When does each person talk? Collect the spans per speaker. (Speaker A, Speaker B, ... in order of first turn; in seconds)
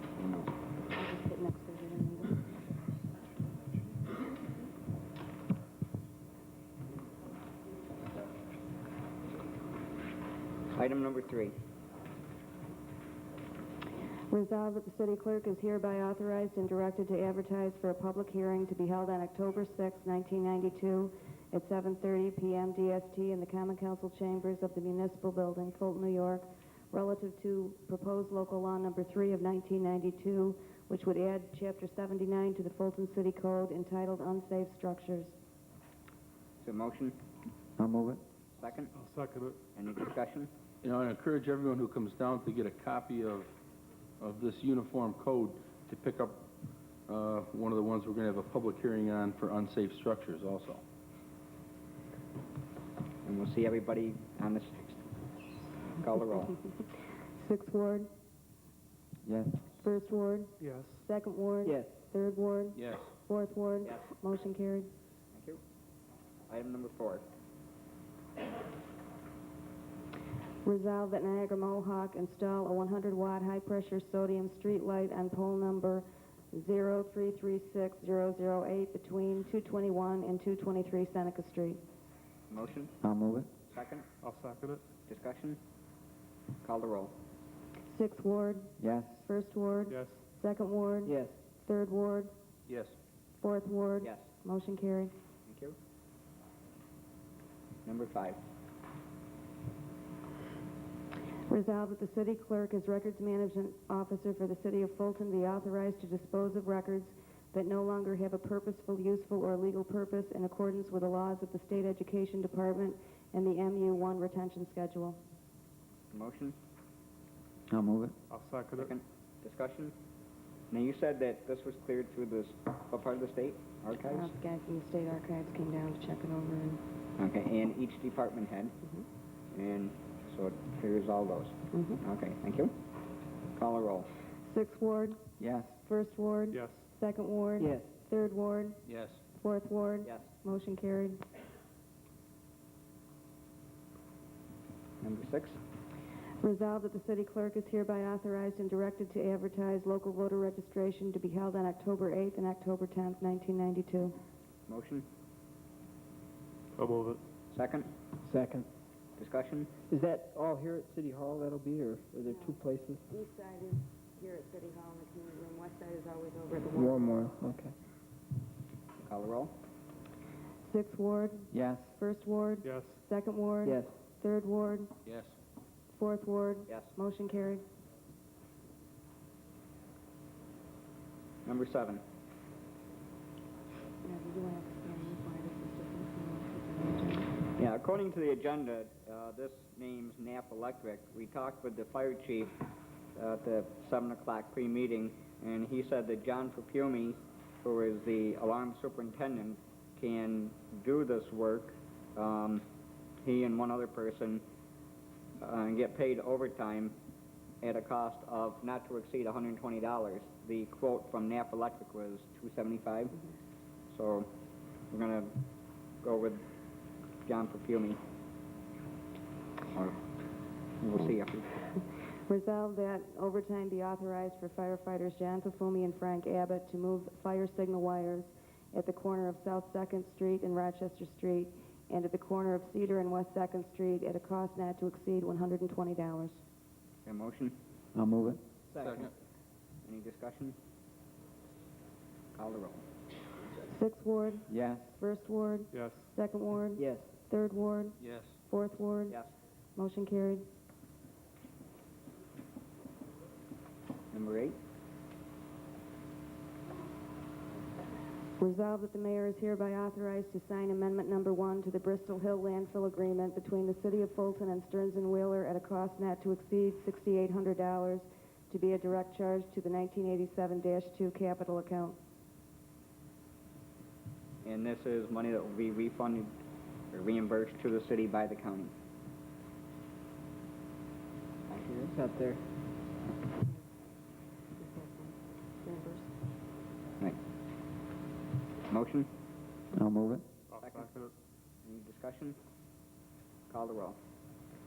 Speaker A: 0.2-0.5, 10.7-11.6, 36.6-37.2, 38.6-38.9, 39.8-40.5, 53.2-55.0, 56.0-56.5, 65.3-65.6, 66.5-67.2, 82.5-82.9, 83.7-84.1, 85.1-85.6, 86.6-87.2, 94.0-94.3, 95.5-95.8, 97.8-98.4, 116.1-116.6, 118.8-119.9, 120.7-124.3, 127.2-128.8, 129.5-132.7, 133.6-134.1, 145.0-145.6, 154.7-155.1, 157.5-157.9, 159.2-159.7, 169.0-169.6, 181.5-182.0, 187.6-192.6, 193.2-202.7, 203.2-204.4, 205.4-207.0, 207.6-213.2, 213.9-214.3, 214.9-215.4, 216.0-216.4, 217.3-218.0, 220.8-221.5, 237.1-237.6, 239.8-240.6, 242.3-242.8, 254.1-254.6, 274.4-276.3, 276.9-278.7, 281.5-281.9, 288.7-289.1, 291.6-292.4, 293.5-294.0
Speaker B: 0.9-2.5, 14.3-35.3, 57.4-58.1, 59.8-64.9, 70.6-81.8, 87.9-92.3, 93.4-95.1, 101.5-115.2, 124.0-126.8, 131.7-132.0, 134.5-135.3, 135.8-138.8, 139.4-141.2, 146.4-154.2, 162.2-162.6, 163.1-167.1, 170.7-174.9, 175.9-177.6, 184.0-187.3, 222.3-236.4, 243.7-249.2, 249.8-250.4, 258.4-272.0, 284.6-286.1
Speaker C: 37.8-38.2, 59.2-59.6, 83.0-83.5, 88.8-89.2, 117.7-118.2, 135.4-135.7, 171.5-171.9, 237.9-238.4, 244.5-244.9, 289.7-290.3
Speaker D: 38.9-39.6, 60.6-61.0, 84.2-84.8, 89.9-90.2, 118.3-119.0, 136.5-136.8, 156.8-157.2, 172.6-173.0, 245.7-246.1, 290.5-291.1
Speaker E: 40.8-43.5, 44.2-46.5, 47.1-50.8, 62.8-63.1, 92.7-93.0, 138.9-139.2, 175.1-175.3, 238.8-239.1, 248.0-248.4
Speaker F: 61.6-62.0, 91.1-91.4, 137.6-137.9, 158.2-158.7, 159.9-163.0, 166.7-167.7, 173.6-173.9, 238.7-239.1, 246.8-247.1, 281.9-282.4